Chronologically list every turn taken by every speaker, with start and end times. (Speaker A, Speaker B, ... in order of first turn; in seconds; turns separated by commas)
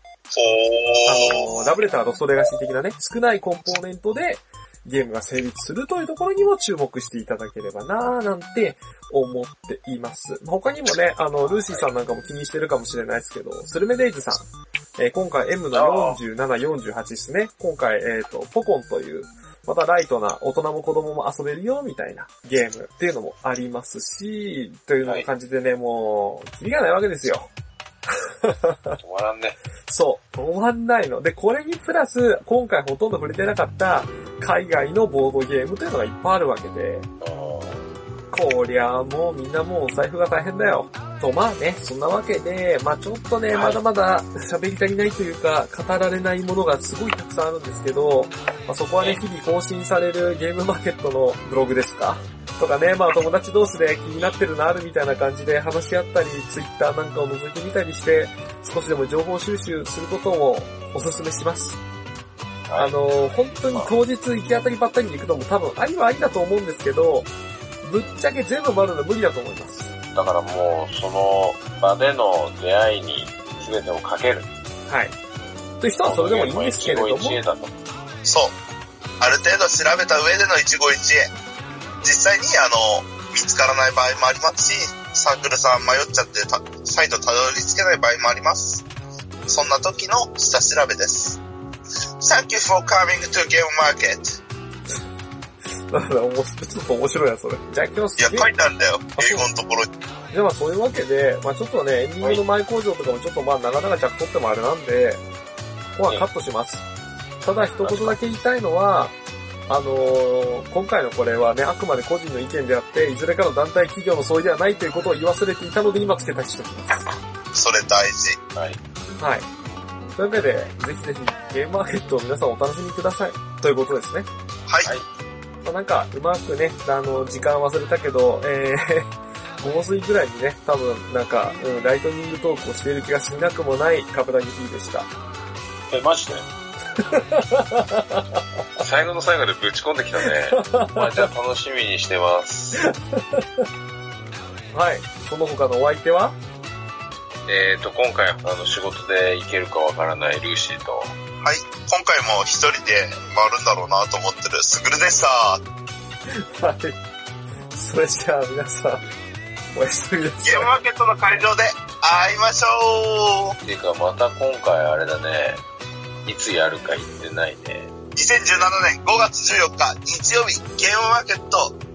Speaker A: 0.3-1.7, Speaker B: 1.1-14.5, Speaker C: 11.4-11.9, Speaker B: 15.0-27.5, Speaker C: 15.7-16.2, Speaker B: 28.1-29.0, Speaker C: 29.0-29.6, Speaker B: 29.9-37.1, Speaker C: 37.2-37.9, Speaker B: 38.3-61.8, Speaker C: 43.5-43.8, Speaker C: 62.7-63.0, Speaker B: 62.8-67.3, Speaker B: 67.8-69.9, Speaker C: 69.9-74.5, Speaker B: 74.9-75.2, Speaker B: 75.8-77.4, Speaker C: 76.0-77.8, Speaker A: 78.2-78.5, Speaker A: 79.2-81.3, Speaker A: 82.0-88.8, Speaker A: 89.5-91.4, Speaker A: 92.2-94.4, Speaker B: 95.9-98.5, Speaker A: 98.2-99.9, Speaker B: 99.2-99.5, Speaker B: 100.3-105.2, Speaker B: 106.0-106.8, Speaker B: 107.4-109.2, Speaker C: 107.8-108.2, Speaker B: 109.7-117.1, Speaker A: 117.5-118.4, Speaker C: 118.5-118.8, Speaker B: 119.2-119.5, Speaker B: 120.2-124.3, Speaker B: 125.6-129.1, Speaker B: 129.6-135.1, Speaker C: 135.9-136.5, Speaker B: 137.0-138.4, Speaker C: 138.8-142.8, Speaker B: 140.2-141.3, Speaker B: 142.8-143.6, Speaker B: 144.7-146.4, Speaker C: 147.4-151.1, Speaker A: 151.4-155.6, Speaker B: 156.3-157.0, Speaker B: 157.7-159.0, Speaker B: 159.7-160.7, Speaker A: 160.4-163.6, Speaker C: 163.6-165.6, Speaker C: 166.2-167.9, Speaker A: 168.2-171.8